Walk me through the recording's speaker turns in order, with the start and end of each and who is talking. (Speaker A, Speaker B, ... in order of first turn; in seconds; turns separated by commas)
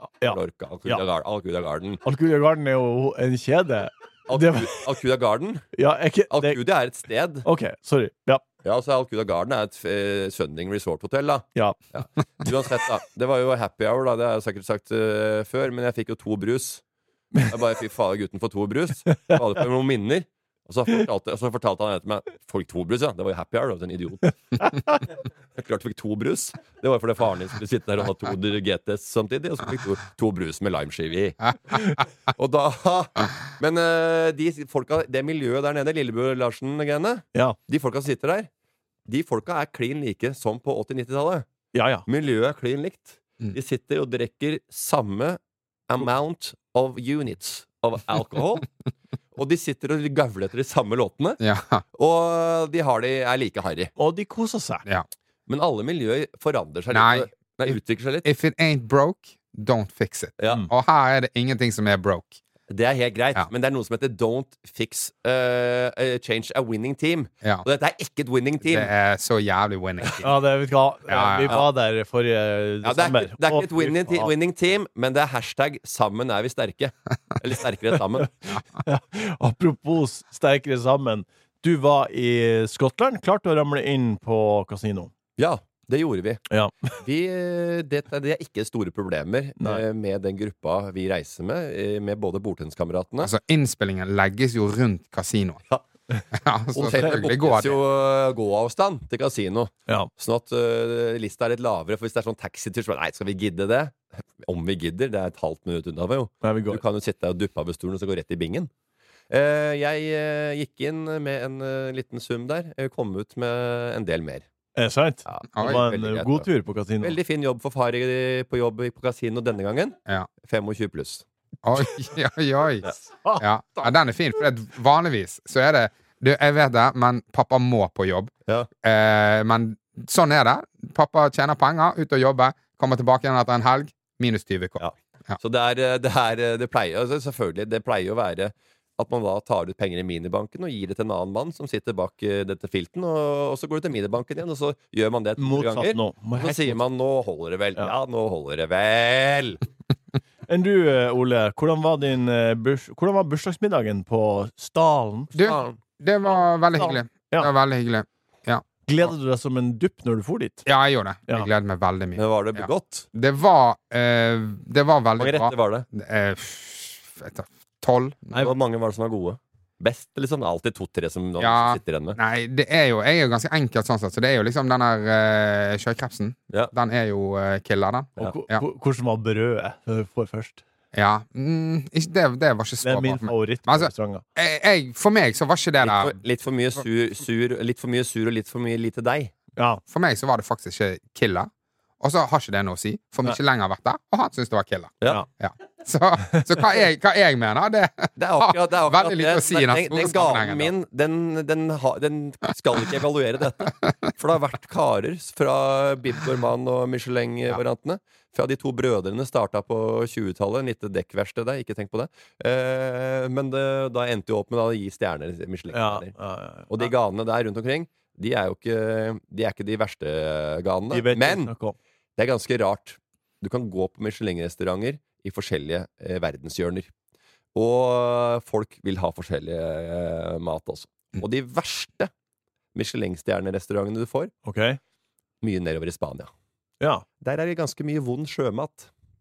Speaker A: 0.2-1.0, Speaker B: 0.2-2.0, Speaker A: 2.0-4.7, Speaker B: 4.3-5.7, Speaker A: 5.7-6.6, Speaker B: 6.3-7.5, Speaker A: 7.4-8.4, Speaker B: 8.6-16.8, Speaker B: 17.4-24.7, Speaker A: 19.1-19.3, Speaker A: 24.6-25.0, Speaker B: 25.6-31.8, Speaker B: 32.3-38.5, Speaker B: 39.1-41.5, Speaker A: 41.7-42.0, Speaker B: 42.0-48.7, Speaker B: 49.3-51.4, Speaker C: 51.4-51.8, Speaker B: 52.0-53.9, Speaker A: 54.0-54.8, Speaker B: 55.5-58.3, Speaker C: 56.9-62.4, Speaker B: 60.4-60.6, Speaker B: 62.7-68.9, Speaker C: 68.6-70.4, Speaker A: 70.2-74.3, Speaker C: 71.1-71.6, Speaker B: 72.8-78.3, Speaker A: 78.8-85.1, Speaker B: 85.4-86.4, Speaker A: 86.5-86.9, Speaker B: 87.0-93.3, Speaker A: 89.6-89.8, Speaker C: 93.2-95.6, Speaker A: 96.1-97.3, Speaker C: 96.3-97.8, Speaker B: 96.9-108.7, Speaker A: 106.4-106.8, Speaker B: 109.3-114.5, Speaker A: 114.8-117.2, Speaker B: 115.2-116.5, Speaker C: 115.6-115.8, Speaker B: 117.0-121.2, Speaker C: 121.6-122.9, Speaker A: 123.2-123.9, Speaker C: 123.4-128.3, Speaker C: 128.8-135.4, Speaker B: 134.8-149.6, Speaker A: 145.4-146.8, Speaker A: 150.5-155.3, Speaker C: 155.3-158.6, Speaker B: 155.3-155.8, Speaker A: 156.8-157.5, Speaker A: 158.8-160.7, Speaker C: 160.7-168.3, Speaker B: 162.2-163.1, Speaker B: 165.2-165.8, Speaker B: 168.3-172.2, Speaker C: 171.4-178.6, Speaker A: 178.2-180.6, Speaker C: 180.9-186.1, Speaker A: 182.8-184.2, Speaker B: 185.8-189.3, Speaker A: 189.6-189.8, Speaker C: 189.9-191.5, Speaker C: 192.0-200.7, Speaker B: 198.2-216.1, Speaker A: 215.7-216.9, Speaker B: 216.7-221.5, Speaker A: 220.9-221.8, Speaker B: 222.2-226.9, Speaker B: 227.5-232.1, Speaker B: 232.7-234.3, Speaker A: 234.4-234.8, Speaker B: 235.4-236.3, Speaker B: 237.2-238.9